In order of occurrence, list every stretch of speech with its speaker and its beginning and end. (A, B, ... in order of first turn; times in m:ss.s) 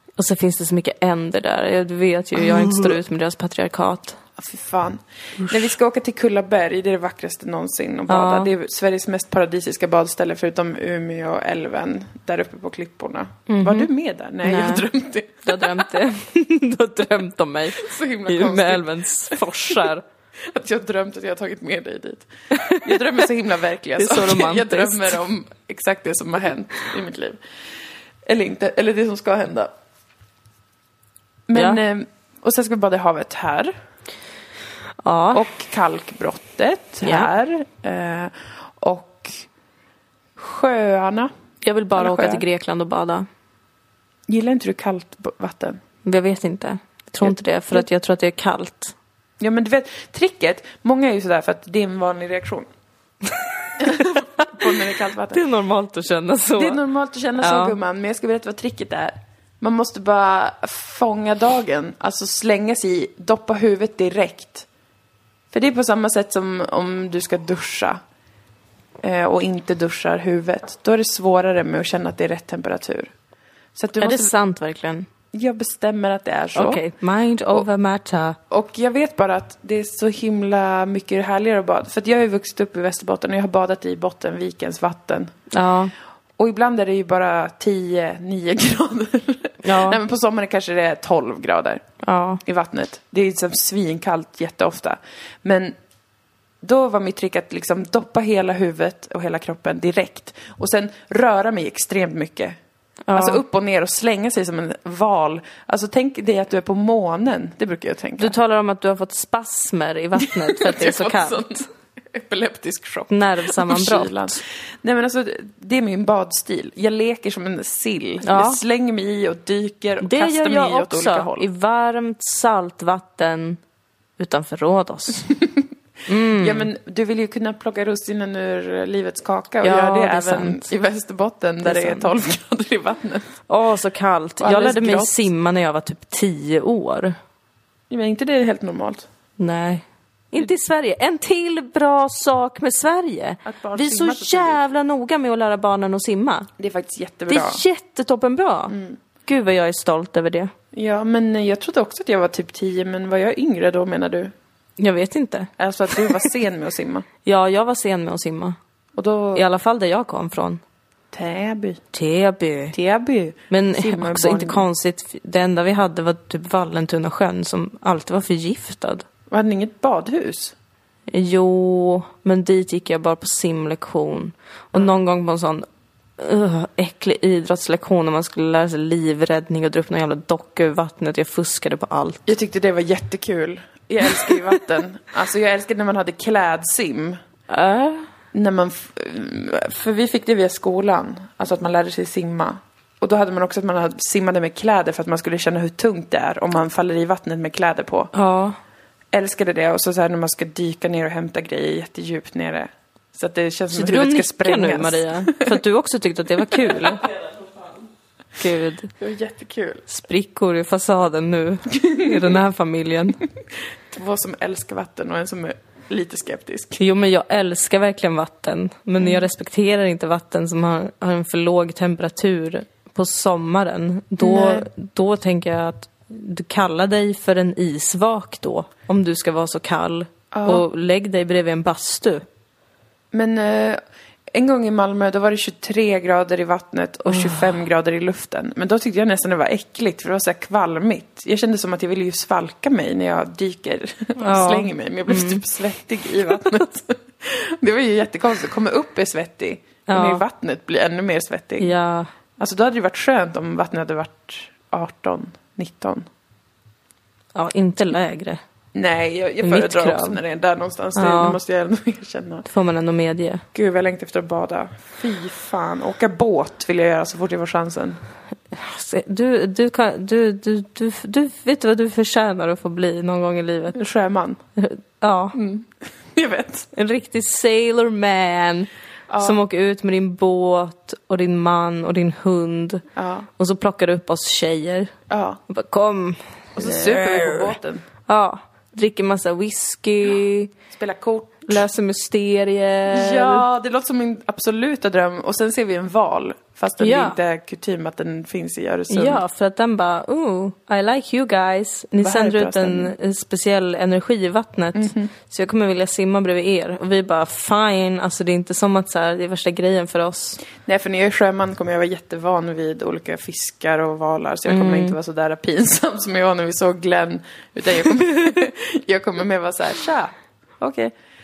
0:00.2-0:04.2 A
0:02.5-0:03.0 B
0:04.4-0:15.9 B
0:08.1-0:08.5 A
0:13.5-0:13.9 A
0:14.4-0:14.9 A
0:15.4-0:20.0 A
0:17.8-0:19.9 B
0:20.5-0:27.4 B
0:22.6-0:23.0 A
0:24.0-0:25.2 A
0:28.3-0:29.7 B
0:31.5-0:33.7 B
0:31.6-0:31.8 A
0:35.0-0:35.4 A
0:35.3-0:39.5 B
0:37.0-0:37.3 A
0:40.4-0:41.3 B
0:41.6-0:43.3 A
0:42.0-0:42.4 B
0:44.3-0:45.8 B
0:46.0-0:49.0 A
0:47.2-0:47.9 B
0:49.4-0:52.7 B
0:53.8-0:55.4 B
0:53.9-0:56.8 A
0:56.6-1:04.7 B
0:57.4-0:57.8 A
1:05.5-1:08.0 B
1:09.0-1:13.1 B
1:13.8-1:14.3 B
1:14.0-1:15.1 A
1:15.3-1:16.8 B
1:16.6-1:18.4 A
1:18.5-1:25.4 B
1:25.5-1:25.9 A
1:26.4-1:31.8 B
1:29.6-1:30.0 A
1:32.0-1:32.4 A
1:32.4-1:35.7 B
1:36.6-1:42.6 B
1:43.1-1:43.4 A
1:43.1-1:48.4 B
1:48.2-1:51.7 A
1:50.2-2:01.5 B
1:53.1-1:54.4 A
1:58.2-1:58.6 A
2:00.0-2:03.6 A
2:04.2-2:05.3 A
2:05.3-2:05.6 B
2:06.1-2:06.7 A
2:06.3-2:13.3 B
2:09.6-2:10.6 A
2:11.6-2:12.1 A
2:13.5-2:17.2 A
2:14.4-2:15.3 B
2:17.9-2:19.1 B
2:19.4-2:26.5 A
2:23.4-2:24.6 B
2:26.6-2:27.6 B
2:27.3-2:28.7 A
2:28.7-2:29.0 B
2:29.3-2:30.5 A
2:30.7-2:34.3 B
2:34.8-2:36.3 A
2:35.6-2:37.1 B
2:37.2-2:38.6 A
2:39.0-2:39.4 B
2:39.4-2:40.6 A
2:41.1-2:41.8 B
2:41.9-2:42.8 A
2:42.7-2:44.6 B
2:43.5-2:49.1 A
2:49.3-2:50.6 B
2:51.1-2:55.7 A
2:56.2-3:02.2 A
3:02.3-3:07.2 B
3:07.5-3:08.1 A
3:08.3-3:18.1 B
3:18.1-3:18.6 A
3:19.1-3:25.6 B
3:23.7-3:27.2 A
3:28.4-3:28.9 A
3:29.0-3:29.9 B
3:29.9-3:33.2 A
3:31.7-3:32.3 B
3:33.9-3:36.8 B
3:36.8-3:52.3 A
3:39.0-3:39.3 B
3:44.2-3:44.7 B
3:50.3-3:50.6 B
3:53.1-3:53.8 B
3:54.3-4:11.7 B
3:57.1-3:57.5 A
4:04.2-4:05.4 A
4:09.9-4:10.2 A
4:11.6-4:12.1 A
4:12.4-4:16.1 B
4:17.4-4:18.4 A
4:18.8-4:22.5 B
4:19.4-4:20.2 A
4:21.0-4:21.4 A
4:22.5-4:23.4 A
4:23.5-4:28.0 B
4:28.5-4:33.8 A
4:33.7-4:34.4 B
4:34.6-4:35.4 A
4:35.3-4:36.7 B
4:36.7-4:38.7 A
4:39.1-4:39.4 B
4:39.2-4:42.9 A
4:43.0-4:43.3 B
4:43.4-4:44.9 A
4:45.1-4:45.4 B
4:45.5-4:47.5 A
4:46.6-4:47.9 B
4:48.1-4:50.5 A
4:50.7-4:51.6 B
4:51.5-4:53.5 A
4:52.9-4:59.2 B
4:56.8-4:57.2 A
4:58.9-5:10.4 A
5:02.0-5:02.9 B
5:04.8-5:05.1 B
5:10.6-5:20.9 B
5:14.5-5:15.0 A